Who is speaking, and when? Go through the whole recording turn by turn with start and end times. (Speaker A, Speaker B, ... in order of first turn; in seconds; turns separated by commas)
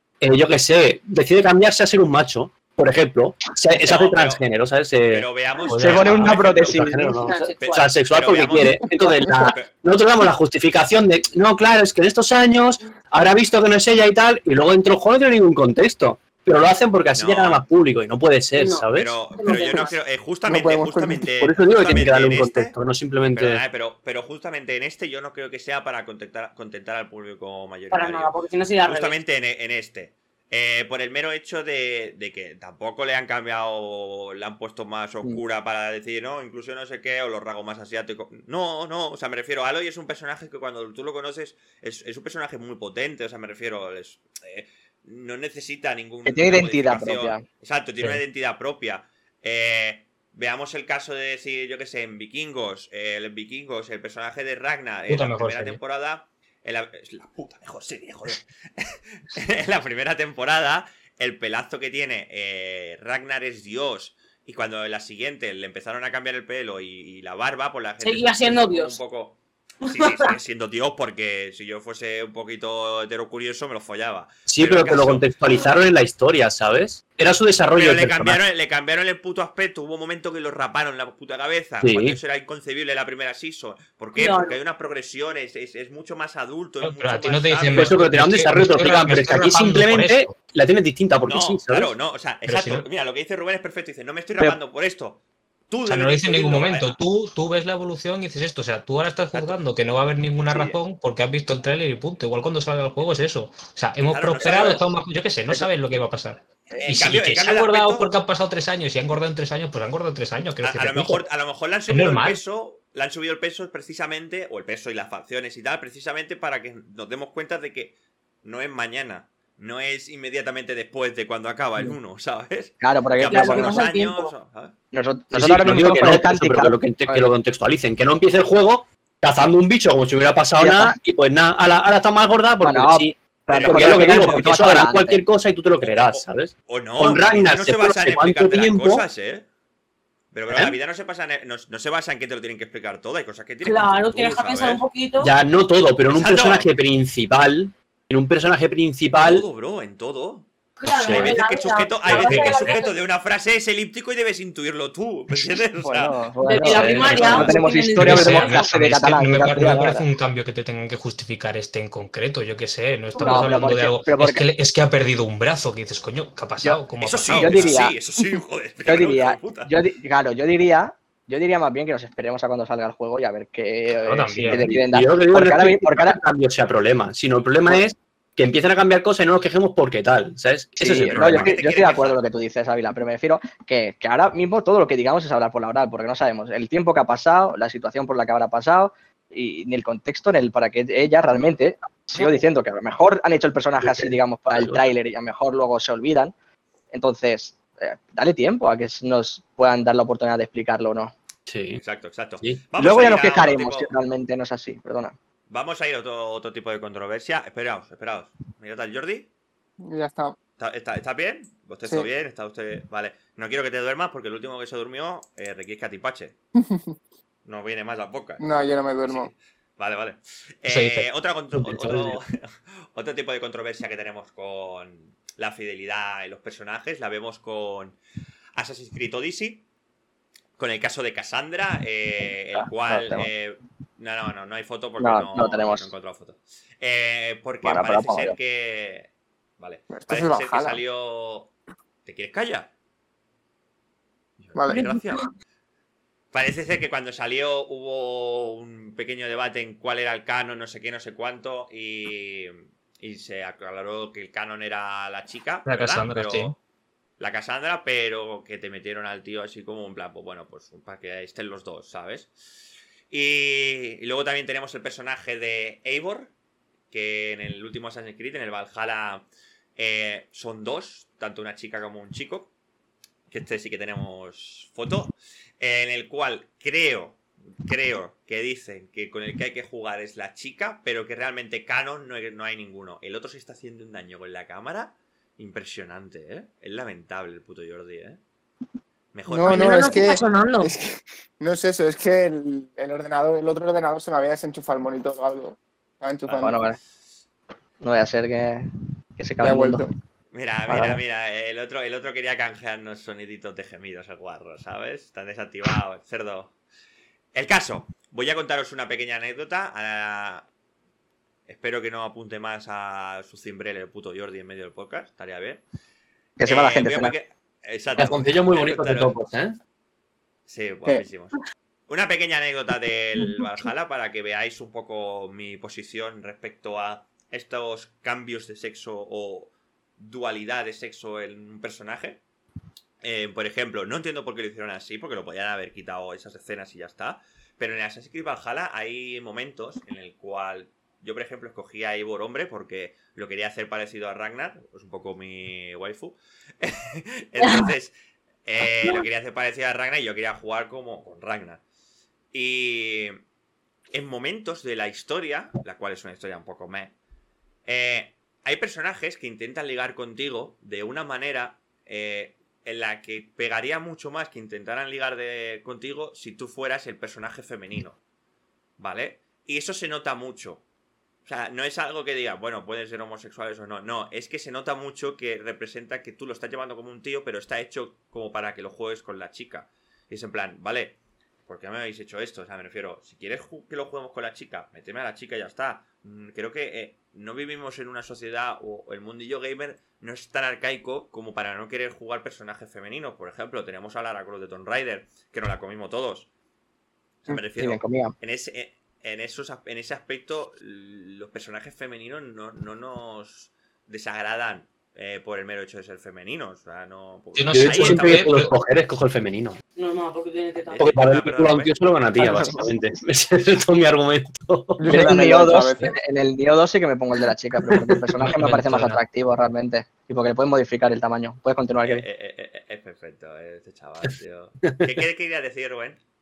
Speaker A: 0.2-5.3, Speaker B: 3.8-4.4, Speaker B: 5.1-6.7, Speaker C: 5.7-6.4, Speaker D: 5.8-7.2, Speaker A: 6.0-19.2, Speaker E: 7.2-7.8, Speaker B: 7.6-9.7, Speaker B: 17.1-17.6, Speaker E: 18.6-19.9, Speaker B: 18.9-22.7, Speaker F: 20.5-21.3, Speaker A: 21.4-23.6, Speaker B: 23.4-75.7, Speaker E: 27.9-29.2, Speaker D: 46.2-47.4, Speaker C: 55.1-55.8, Speaker E: 68.0-69.0, Speaker E: 69.8-70.3, Speaker A: 74.5-78.4, Speaker B: 77.8-88.0, Speaker A: 81.8-82.2, Speaker E: 84.2-84.6, Speaker C: 86.8-90.3, Speaker A: 87.8-91.9, Speaker B: 91.3-97.0, Speaker C: 92.5-92.9, Speaker C: 95.9-111.2, Speaker B: 100.5-100.8, Speaker B: 104.1-104.8, Speaker B: 106.7-108.2, Speaker B: 110.6-124.7, Speaker C: 111.9-112.4, Speaker D: 122.8-123.8, Speaker E: 123.2-124.3, Speaker D: 124.9-127.3, Speaker A: 125.3-139.1, Speaker D: 130.6-131.0, Speaker D: 132.6-135.2, Speaker B: 133.5-134.6, Speaker B: 135.8-139.4, Speaker B: 140.3-144.8, Speaker E: 143.6-145.3, Speaker A: 145.2-149.5, Speaker B: 146.1-146.7, Speaker B: 149.1-150.5, Speaker E: 150.8-153.0, Speaker A: 150.9-151.4, Speaker B: 151.0-156.2, Speaker C: 152.1-152.8, Speaker D: 155.8-160.1, Speaker E: 156.4-158.6, Speaker A: 156.6-157.6, Speaker B: 157.0-157.5, Speaker C: 157.9-167.8, Speaker E: 163.2-163.6, Speaker D: 163.2-164.4, Speaker D: 166.6-168.0, Speaker B: 167.0-169.7, Speaker D: 168.9-176.2, Speaker C: 174.0-174.8, Speaker A: 174.5-181.6, Speaker D: 180.8-196.3, Speaker B: 181.1-182.2, Speaker A: 193.8-194.9, Speaker D: 196.9-201.2, Speaker A: 201.5-201.8, Speaker B: 201.7-203.9, Speaker D: 202.8-205.2, Speaker B: 205.5-209.3, Speaker F: 209.8-210.3, Speaker B: 210.6-216.4, Speaker F: 216.6-216.9, Speaker B: 217.4-228.0, Speaker F: 218.4-219.3, Speaker C: 220.7-222.2, Speaker B: 228.6-229.6, Speaker B: 230.6-241.5, Speaker D: 232.6-233.3, Speaker D: 235.0-235.9, Speaker D: 237.6-238.4, Speaker F: 239.9-240.8, Speaker B: 242.1-242.7, Speaker B: 244.4-245.3, Speaker F: 244.6-245.0, Speaker B: 246.3-256.6, Speaker C: 255.7-256.6, Speaker B: 257.2-262.3, Speaker B: 263.1-266.3, Speaker B: 266.9-272.5, Speaker B: 273.3-288.2, Speaker B: 289.1-290.3, Speaker F: 289.3-296.6, Speaker E: 289.4-290.8, Speaker B: 296.2-296.6, Speaker D: 296.4-296.8, Speaker D: 297.8-298.7, Speaker D: 299.2-299.9, Speaker F: 299.4-299.9, Speaker B: 300.3-306.5, Speaker D: 300.7-301.0, Speaker B: 307.3-310.5, Speaker B: 311.5-315.6, Speaker D: 316.4-317.1, Speaker B: 316.5-319.2, Speaker A: 318.0-319.6, Speaker B: 320.5-321.4, Speaker B: 321.9-332.2, Speaker B: 333.0-347.9, Speaker E: 347.4-347.7, Speaker B: 348.5-351.6, Speaker B: 352.3-353.2, Speaker B: 353.9-356.9, Speaker B: 357.7-368.0, Speaker B: 368.8-370.6, Speaker B: 371.2-381.0, Speaker B: 381.5-396.3, Speaker B: 397.3-408.3, Speaker D: 397.3-398.1, Speaker C: 407.4-408.5, Speaker A: 407.5-409.6, Speaker E: 409.8-410.9, Speaker B: 410.7-411.7, Speaker A: 410.8-415.3, Speaker D: 412.2-412.7, Speaker F: 414.8-415.9, Speaker D: 414.9-422.1, Speaker A: 417.8-418.0, Speaker C: 418.2-419.0, Speaker B: 421.9-426.0